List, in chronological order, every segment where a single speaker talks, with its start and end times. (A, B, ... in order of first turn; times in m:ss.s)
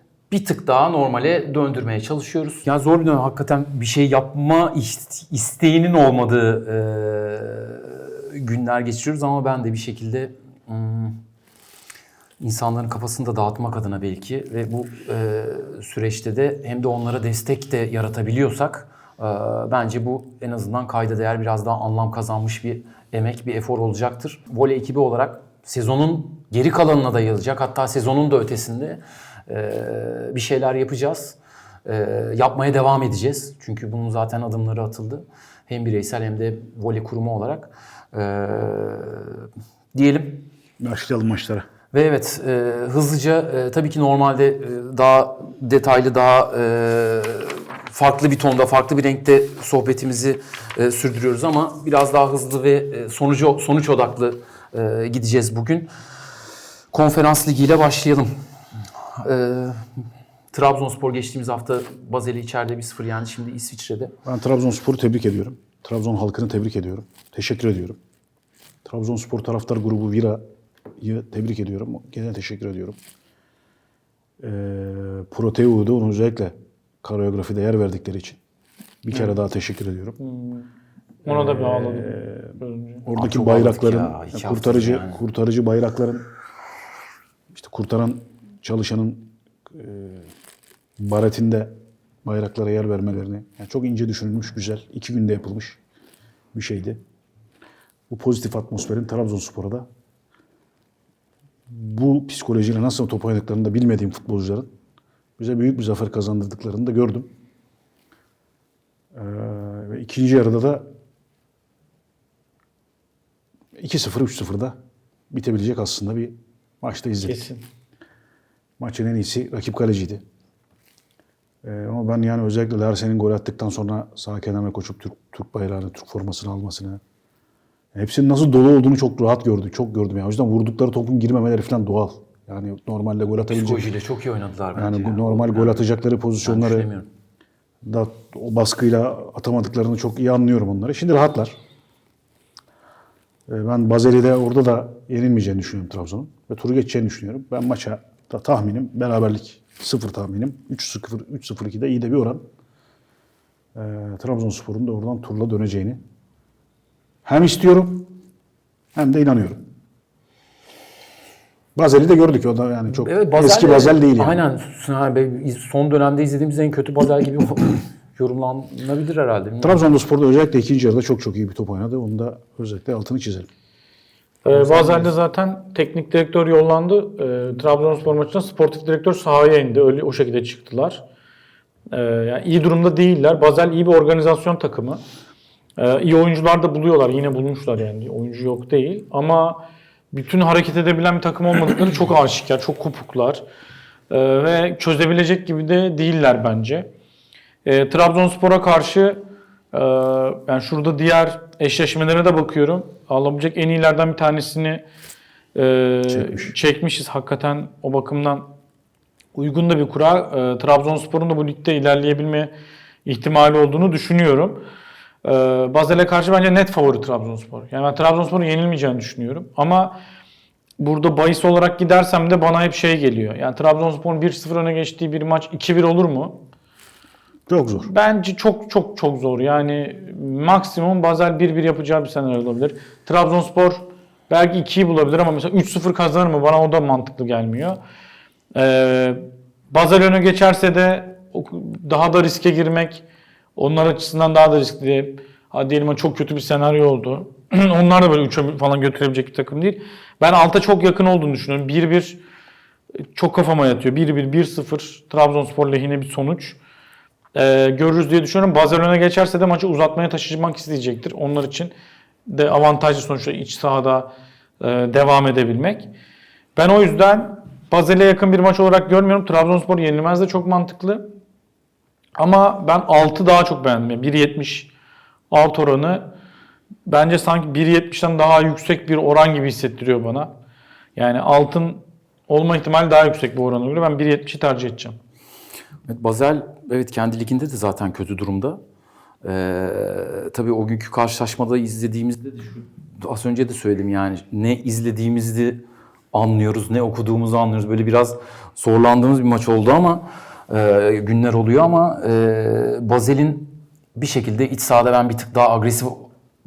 0:00.3-0:11.2 A
0:12.4-0:40.5 A
0:40.8-0:41.6 B
0:41.9-0:55.9 A
0:56.9-0:58.3 A
0:59.1-0:59.8 A
1:00.5-1:04.1 A
1:04.2-1:08.0 B
1:08.8-1:10.4 B
1:11.0-1:13.0 B
1:14.4-1:18.4 B
1:19.0-1:20.2 B
1:20.2-1:20.7 C
1:21.2-1:23.0 C
1:21.2-1:26.2 B
1:23.1-1:25.2 A
1:27.5-1:30.3 B
1:31.0-1:35.8 B
1:36.5-1:37.0 B
1:38.1-1:39.9 B
1:41.7-1:44.7 B
1:45.4-1:47.3 B
1:49.1-1:50.9 B
1:53.8-1:54.8 B
1:55.3-1:57.4 B
1:57.2-1:57.6 C
1:58.8-2:00.2 B
2:01.6-2:07.0 B
2:07.9-2:13.9 B
2:13.5-2:15.8 A
2:14.7-2:16.9 B
2:16.4-2:17.1 A
2:17.8-2:21.6 B
2:23.5-2:32.4 B
2:33.7-2:36.0 B
2:37.2-2:38.1 B
2:38.9-2:39.6 B
2:41.8-2:44.4 B
2:42.9-2:49.8 A
2:49.6-2:53.5 B
2:54.4-3:01.0 C
2:54.5-2:55.1 A
3:01.9-3:05.0 C
3:05.8-3:13.4 C
3:14.1-3:16.9 C
3:17.6-3:19.2 C
3:19.7-3:24.8 C
3:25.5-3:28.5 C
3:26.1-3:26.5 B
3:29.3-3:32.5 C
3:33.0-3:34.6 C
3:35.2-3:40.0 C
3:40.8-3:46.4 C
3:47.5-3:47.9 B
3:47.8-3:57.8 C
3:58.5-4:03.0 C
4:03.6-4:12.2 C
4:13.1-4:16.6 C
4:17.3-4:21.7 C
4:22.3-4:25.9 C
4:26.6-4:31.1 C
4:32.2-4:34.7 C
4:35.3-4:36.1 C
4:36.8-4:40.3 C
4:41.0-4:45.0 C
4:45.9-4:48.6 A
4:49.2-5:06.1 A